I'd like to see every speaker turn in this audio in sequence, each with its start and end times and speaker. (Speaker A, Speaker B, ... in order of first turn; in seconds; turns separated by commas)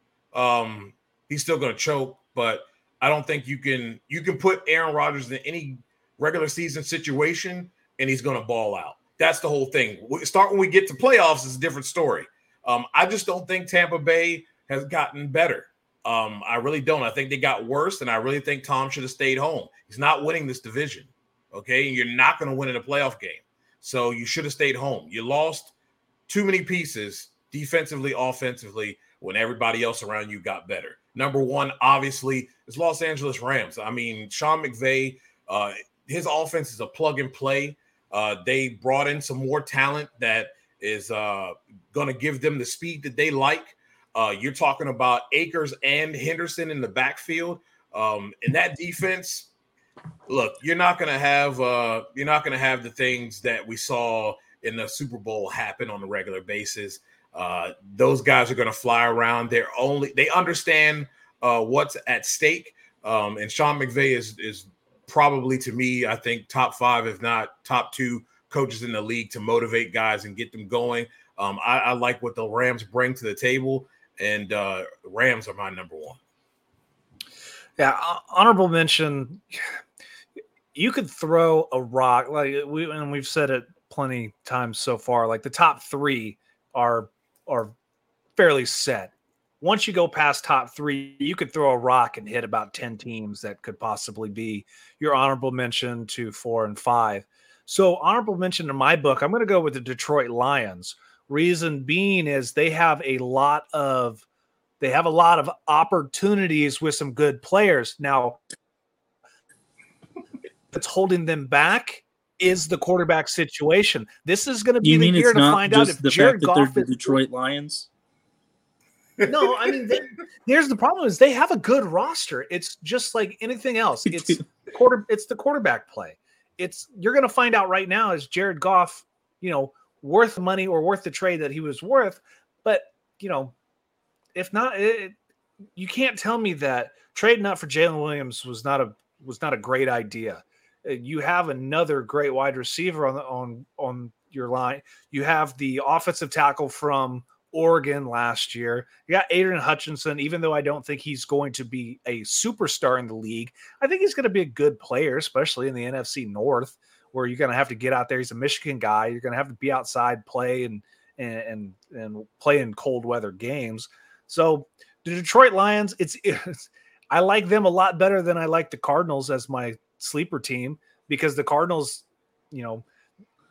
Speaker A: 0.3-25.7, Speaker A: 26.3-49.5, Speaker A: 50.3-76.2, Speaker B: 77.8-79.6, Speaker B: 80.7-87.7, Speaker B: 88.4-104.2, Speaker B: 104.8-108.4, Speaker B: 110.7-117.1, Speaker C: 114.8-117.9, Speaker A: 119.2-119.7, Speaker B: 119.3-133.5, Speaker C: 124.1-124.4, Speaker B: 134.3-135.1, Speaker B: 135.8-172.8